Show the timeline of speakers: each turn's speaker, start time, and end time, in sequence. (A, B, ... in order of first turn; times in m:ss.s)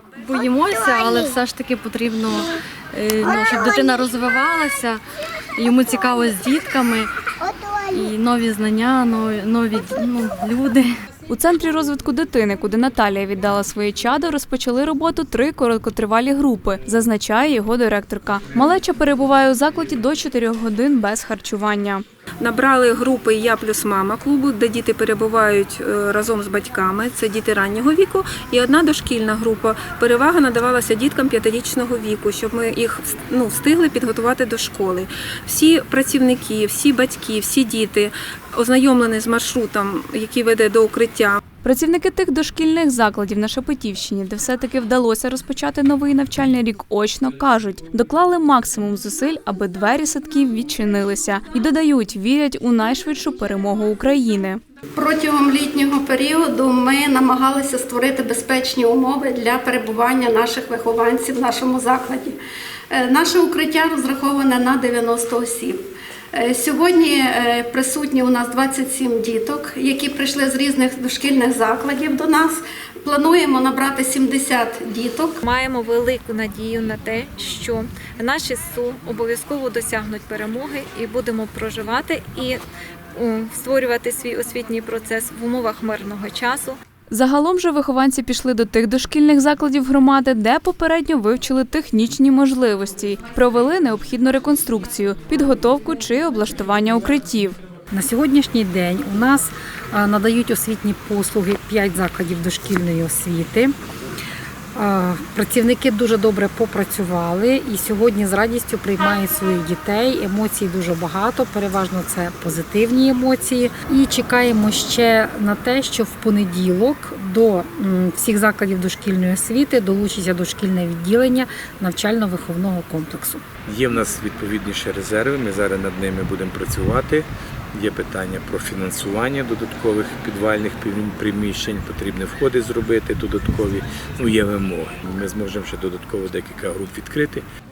0:00.2-0:05.0 A
0:05.6-0:07.1 A
0:07.8-0:11.0 A
0:11.3-0:22.0 B
0:22.4-0:41.4 C
0:41.6-0:54.6 B
0:55.0-1:02.4 D
1:02.9-1:05.8 D
1:06.3-1:15.4 D
1:15.4-1:22.6 E
1:23.2-1:26.8 E
1:27.1-1:37.6 B
1:37.9-1:43.7 F
1:44.8-2:03.4 F
2:03.7-2:17.4 G